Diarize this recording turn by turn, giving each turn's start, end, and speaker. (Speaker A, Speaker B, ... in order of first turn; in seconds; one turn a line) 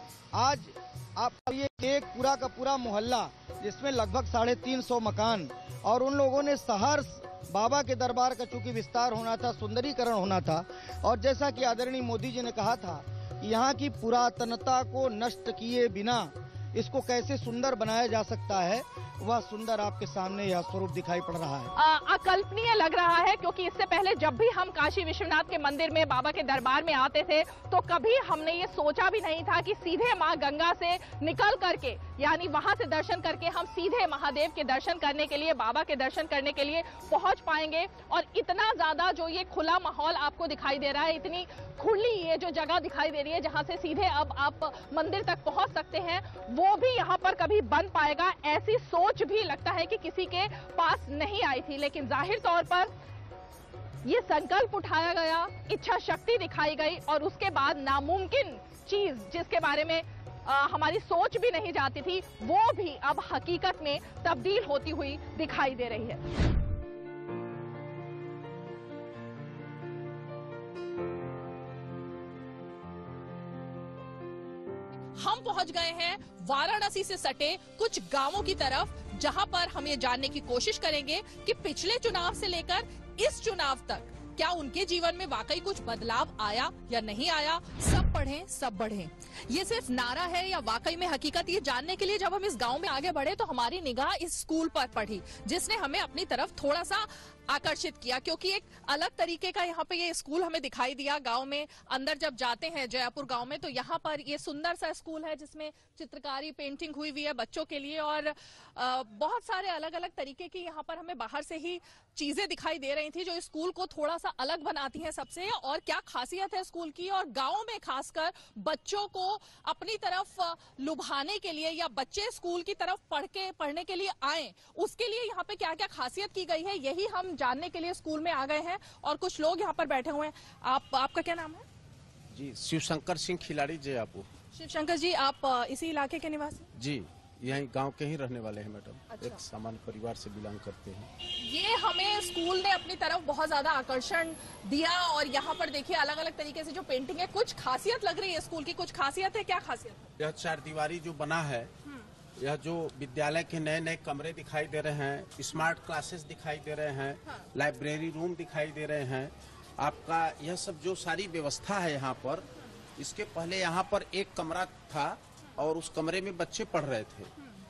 Speaker A: 0.3-21.7
Speaker B: 21.8-52.9
Speaker B: 54.0-66.2
Speaker B: 75.2-131.6
Speaker C: 132.3-134.3
Speaker B: 134.5-136.7
Speaker C: 136.8-141.1
Speaker B: 139.1-139.4
Speaker B: 141.4-150.1
Speaker C: 150.2-151.7
Speaker C: 152.4-162.4
Speaker C: 163.0-167.3